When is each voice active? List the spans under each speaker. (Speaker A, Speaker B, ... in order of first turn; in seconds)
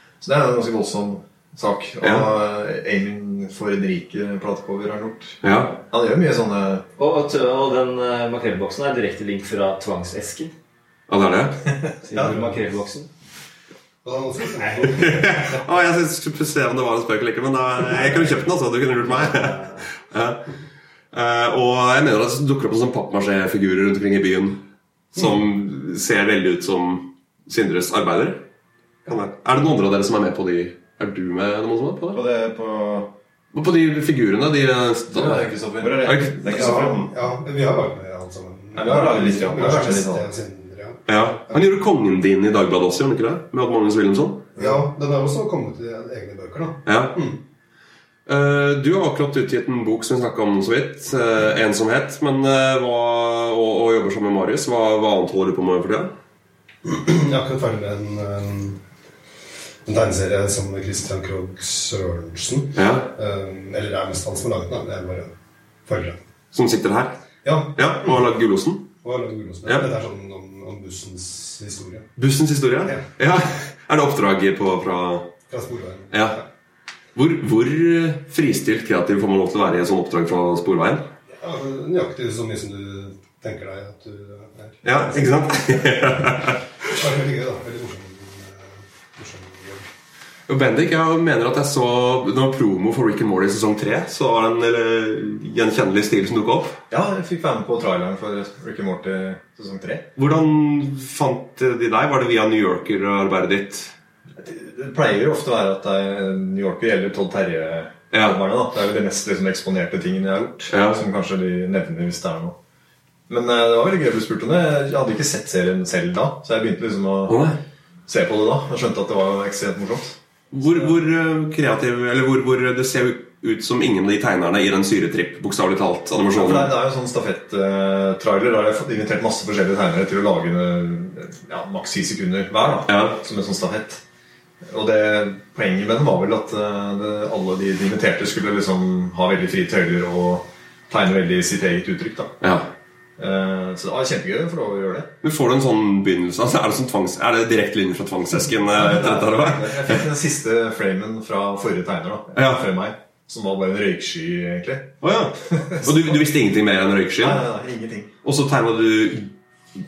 Speaker A: 0.2-6.8, 12.1-12.4, 96.9-100.1, 104.3-112.5, 113.3-117.4, 118.1-120.2, 126.3-134.0, 134.6-142.3, 143.2-145.1, 148.7-154.9, 155.5-156.2, 157.2-158.1
Speaker B: 2.0-2.3, 5.4-5.8, 11.1-11.6, 14.8-20.5, 21.1-24.6, 25.1-28.4, 29.1-32.2, 33.5-36.8, 41.1-44.5, 46.9-47.2, 48.3-56.1, 62.7-63.1, 66.5-67.2, 67.7-68.9, 69.6-69.9, 72.2-75.3, 76.1-76.4, 77.2-81.0, 84.8-86.6, 90.5-96.8, 100.2-103.9, 108.1-108.4, 110.7-111.0, 117.3-117.6, 120.5-126.7, 132.9-133.2, 142.4-142.7, 145.2-150.0, 152.3-152.7, 155.0-157.4, 158.2-159.3
Speaker C: 7.0-10.5, 12.1-13.1, 18.0-18.4, 19.0-19.9
Speaker D: 14.0-15.6, 36.4-41.6, 44.5-47.4, 56.8-58.8, 59.9-65.3, 65.8-66.2, 67.4-68.2, 69.0-72.1, 75.5-76.4, 81.4-89.9
Speaker E: 32.1-33.1, 35.2-37.1, 38.7-40.2